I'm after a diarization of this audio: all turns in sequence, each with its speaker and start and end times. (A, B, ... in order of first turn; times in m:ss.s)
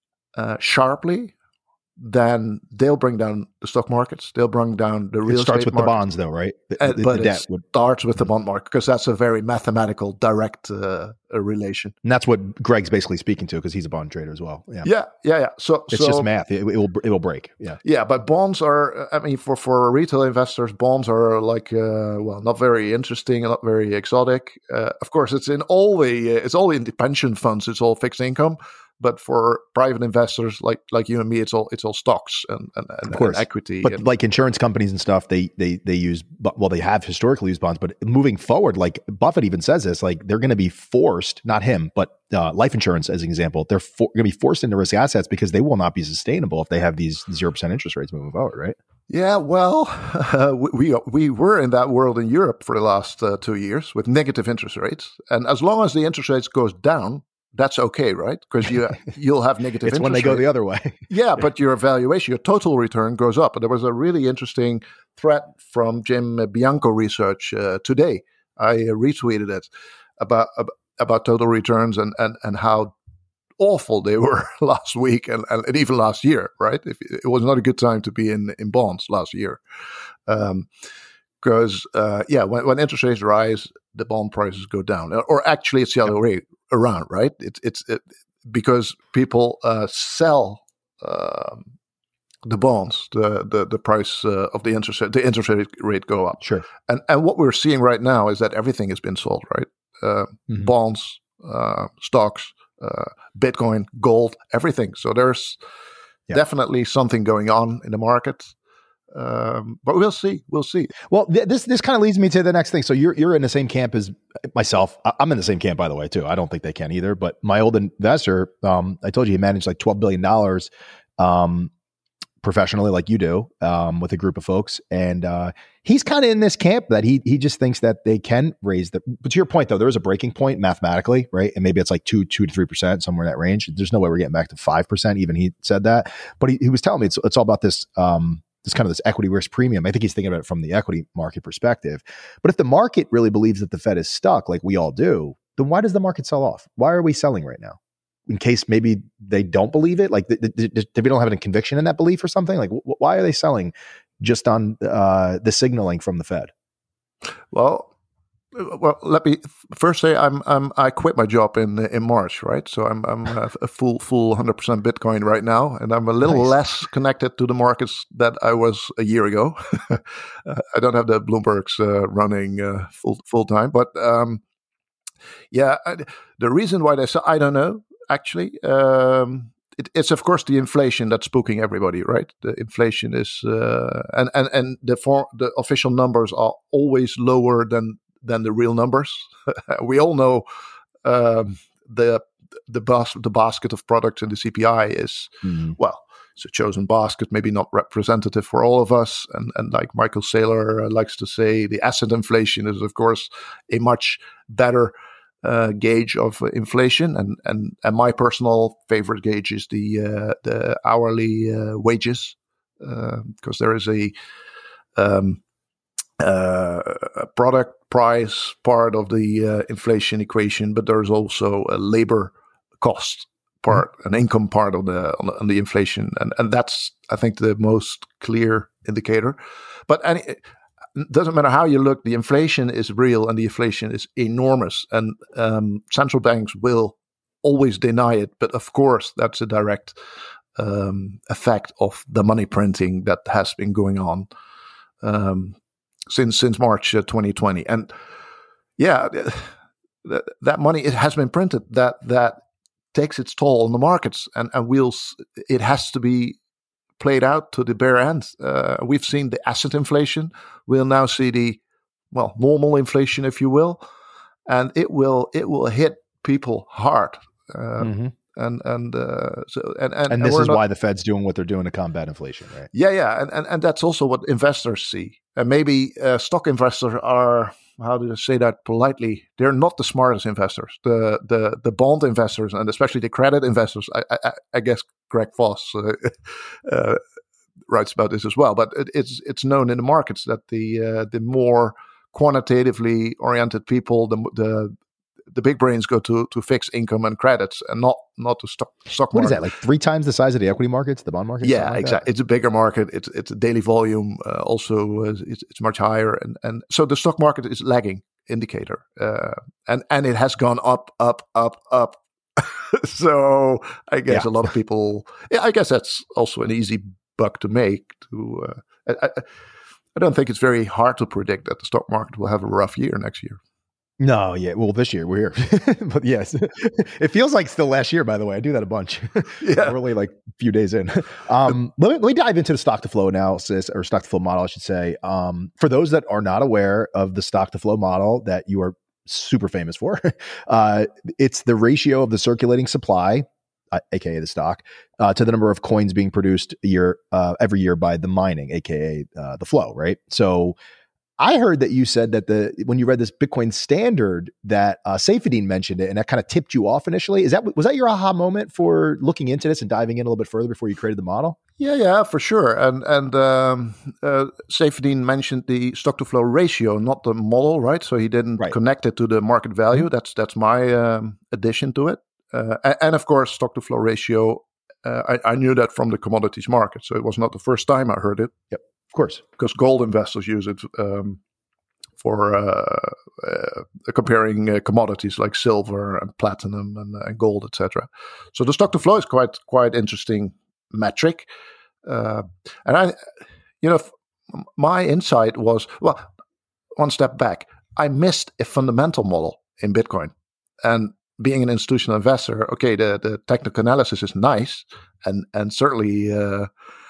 0:00.4-0:01.3 A
0:02.0-0:05.9 A
0:05.3-0:07.6 B
0:06.8-0:11.9 A
0:12.0-0:14.9 B
0:14.8-0:16.3 A
0:15.9-0:17.8 B
0:17.8-0:34.0 A
0:33.1-0:48.8 B
0:49.1-1:00.4 A
0:59.8-1:01.1 B
1:01.1-1:12.9 A
1:13.6-1:19.6 A
1:20.3-1:20.7 A
1:21.4-1:31.7 A
1:32.4-1:45.6 A
1:46.3-1:48.5 A
1:49.1-1:50.9 A
1:51.1-2:01.7 B
2:02.4-2:27.8 B
2:28.3-2:36.5 B
2:37.5-2:37.9 A
2:38.5-2:54.4 A
2:55.5-3:10.4 A
3:11.0-3:34.1 A
3:15.4-3:15.7 B
3:34.9-3:35.4 A
3:36.2-3:50.4 A
3:51.0-4:00.0 A
4:00.6-4:04.3 A
4:05.0-4:05.6 A
4:06.1-4:07.9 A
4:08.8-4:09.5 A
4:10.0-4:12.4 A
4:12.9-4:16.4 A
4:17.0-4:21.6 A
4:22.1-4:23.8 A
4:24.5-4:30.6 A
4:27.8-4:28.1 B
4:30.1-4:32.7 B
4:32.7-4:47.0 A
4:47.7-4:54.7 A
4:55.3-4:59.4 A
4:59.1-5:02.0 B
5:01.4-5:19.2 A
5:19.9-5:23.4 A
5:24.0-5:50.6 B
5:29.4-5:29.8 A
5:51.2-6:01.4 B
6:01.6-6:18.3 A
6:18.5-6:19.2 B
6:19.4-6:21.2 A
6:22.0-6:31.3 A
6:31.8-6:33.0 A
6:33.6-6:36.1 A
6:36.8-6:46.5 A